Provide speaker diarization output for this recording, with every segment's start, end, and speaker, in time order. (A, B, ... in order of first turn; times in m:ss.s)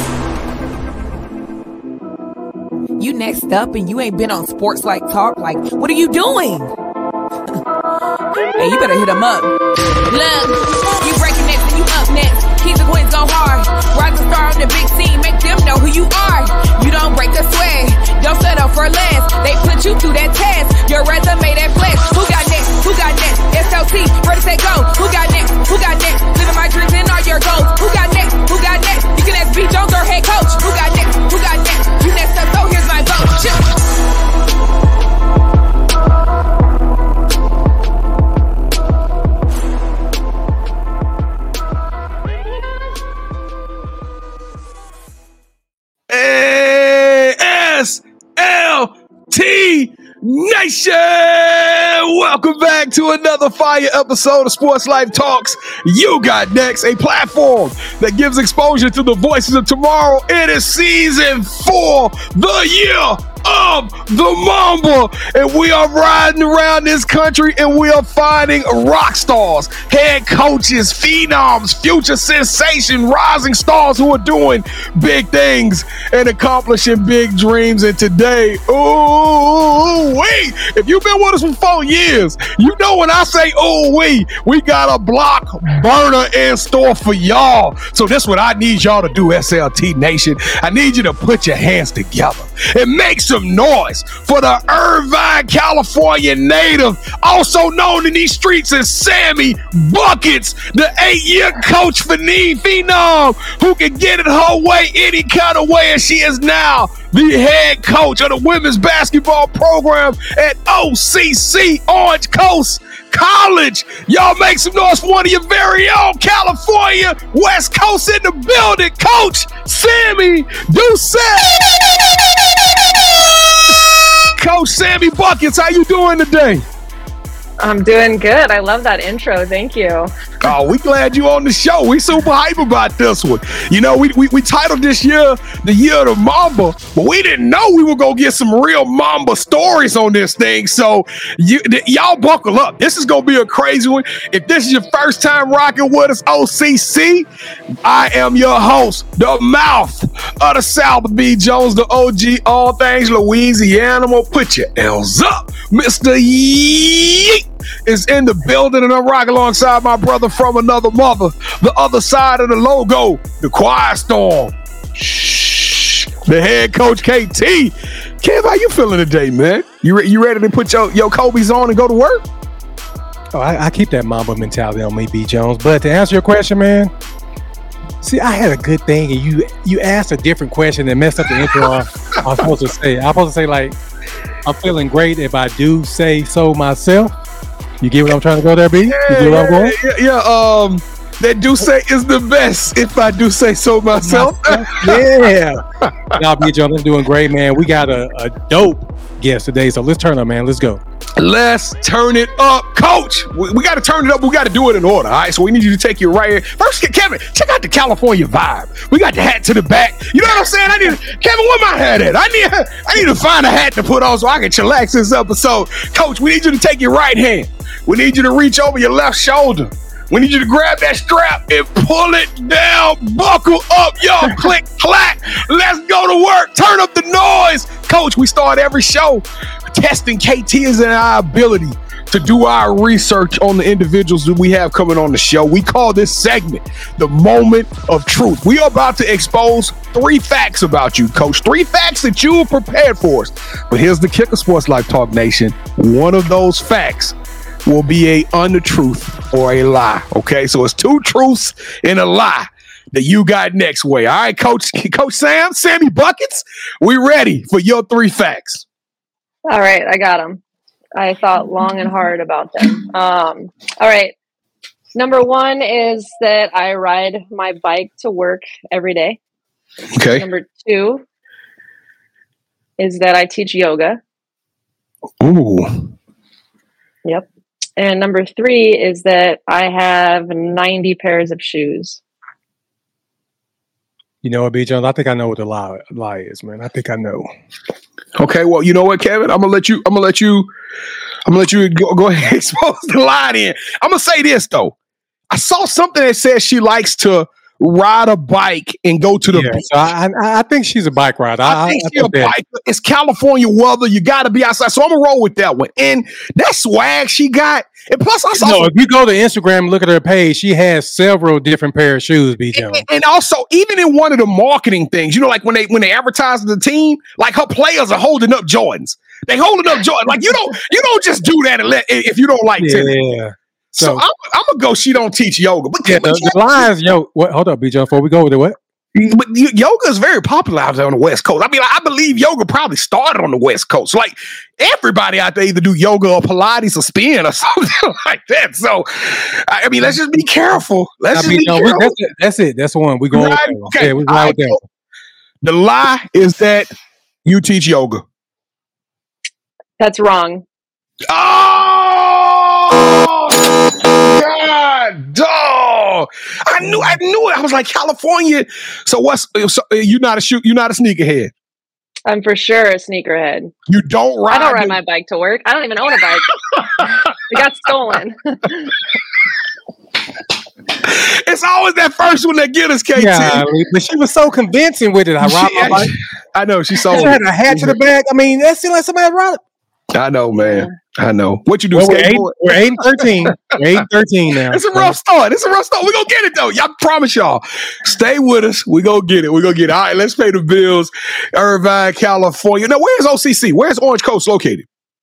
0:03.0-0:06.7 A
0:08.6-0:33.7 A
0:46.1-2:06.6 B
2:07.6-2:10.1 C
2:10.4-2:27.3 B
2:27.8-2:52.3 B
2:53.3-2:56.9 D
2:58.0-3:03.8 D
3:01.4-3:01.7 B
3:04.4-3:07.1 D
3:07.8-3:09.8 D
3:08.9-3:15.1 B
3:14.0-3:15.6 D
3:15.8-3:16.2 B
3:16.1-3:20.8 D
3:21.2-4:18.7 B
4:19.5-4:20.4 C
4:21.0-4:24.2 C
4:25.0-4:29.2 C
4:29.9-4:30.3 B
4:30.1-4:31.0 C
4:32.8-4:34.0 C
4:35.2-4:35.9 B
4:37.8-4:42.0 C
4:44.2-4:47.3 D
4:48.2-4:50.5 B
4:51.3-4:54.8 B
4:55.3-4:59.7 B
4:59.3-5:02.3 D
5:01.4-5:08.7 B
5:08.4-5:12.8 D
5:12.6-5:22.9 B
5:22.6-5:24.0 D
5:23.8-5:26.6 B
5:25.8-5:28.6 D
5:29.0-5:41.9 B
5:41.1-5:44.6 D
5:43.1-5:44.6 B
5:45.4-5:46.7 B
5:47.2-5:48.0 B
5:49.8-5:50.4 C
5:51.1-6:01.3 B
6:02.1-6:03.5 C
6:03.7-6:04.8 B
6:04.3-6:08.8 C
6:06.5-6:07.4 B
6:10.8-6:13.4 B
6:13.0-6:16.0 D
6:15.2-6:17.8 B
6:16.9-6:19.4 D
6:19.9-6:23.6 B
6:20.4-6:20.7 C
6:21.7-6:25.0 D
6:24.5-6:34.7 B